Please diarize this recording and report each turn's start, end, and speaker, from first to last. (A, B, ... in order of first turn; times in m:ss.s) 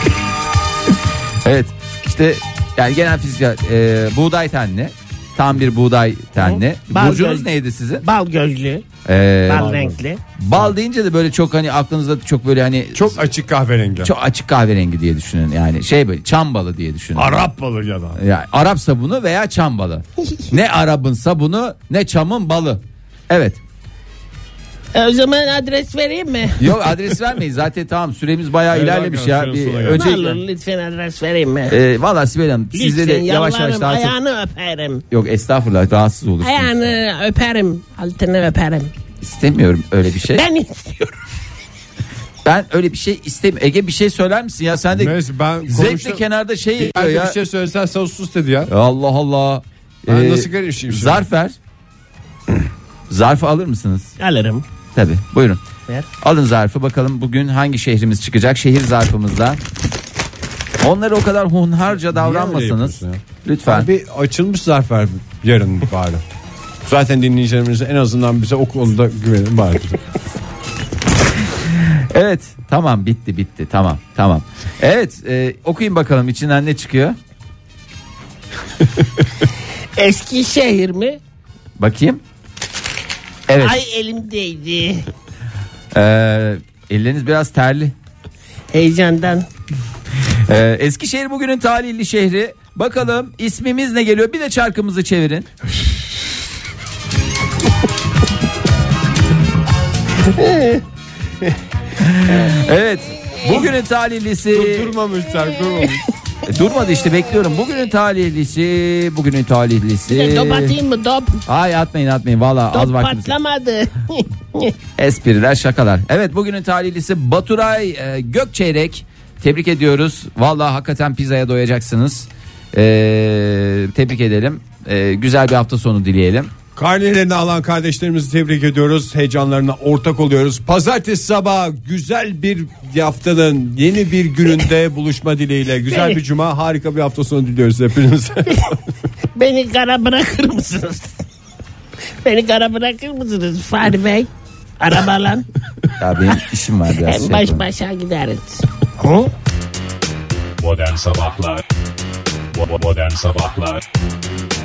0:01.4-0:08.1 A
0:06.4-0:07.5 B
0:08.0-0:08.9 B
0:09.1-0:09.8 A
0:09.5-0:10.2 B
0:09.5-0:10.0 C
0:10.4-0:13.2 A
0:12.9-0:14.1 C
0:14.0-0:17.4 A
0:17.2-0:18.2 C
0:18.2-0:23.6 A
0:24.9-0:27.1 B
0:26.6-0:30.4 A
0:28.7-0:30.1 C
0:29.9-0:31.8 B
0:31.7-0:34.2 A
0:32.7-0:35.0 B
0:35.1-0:37.0 A
0:36.4-0:38.9 B
0:39.2-0:40.5 A
0:40.3-0:41.2 B
0:42.4-0:45.2 A
0:44.9-0:46.2 C
0:45.7-0:47.4 A
0:46.8-0:48.7 C
0:48.7-0:51.6 A
0:50.1-0:51.3 C
0:53.1-0:54.1 A
0:54.2-0:54.6 B
0:55.0-0:55.6 A
0:56.2-0:59.6 A
1:00.8-1:03.9 A
1:01.9-1:06.2 C
1:06.8-1:10.0 C
1:11.7-1:17.2 A
1:20.0-1:21.2 B
1:21.8-1:22.2 A
1:23.5-1:23.8 A
1:23.6-1:25.1 B
1:25.9-1:27.9 A
1:28.7-1:29.5 B
1:30.5-1:35.5 A
1:40.3-1:40.8 B
1:42.0-1:45.0 A
1:44.5-1:46.0 C
1:46.5-1:50.8 A
1:50.1-1:51.4 B
1:51.5-1:53.4 A
1:52.7-1:54.7 B
1:55.0-2:06.5 A
2:06.8-2:18.8 C
2:19.4-2:21.2 B
2:22.2-2:25.5 B
2:26.0-2:27.7 A
2:27.0-2:29.3 B
2:30.6-2:31.6 D
2:32.5-2:33.8 D